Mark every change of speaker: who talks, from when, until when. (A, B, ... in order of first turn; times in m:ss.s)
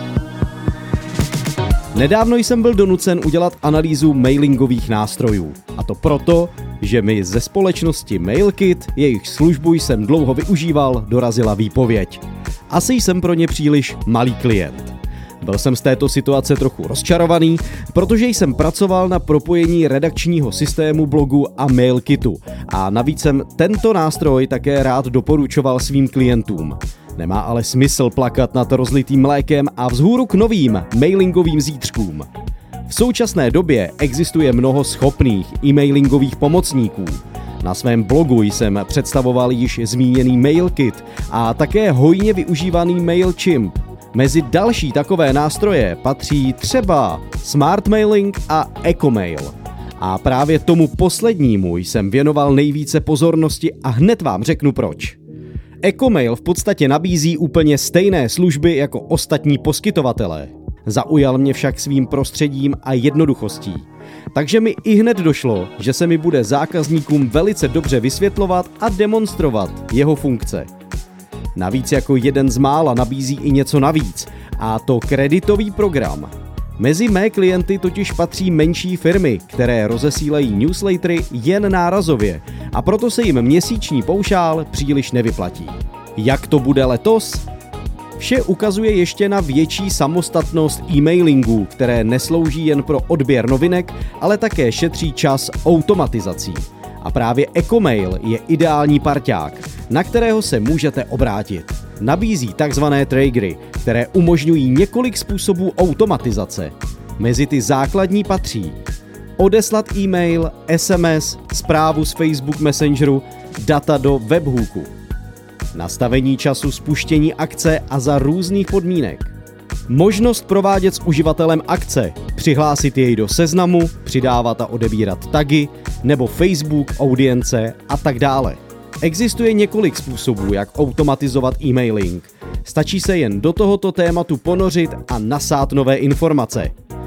0:01.9-0:32.3 A
0:32.9-0:55.2 A
0:55.8-1:10.7 A
1:11.6-1:27.4 A
1:28.2-1:48.8 A
1:49.4-1:54.9 A
1:55.7-1:59.3 A
1:59.9-2:16.7 A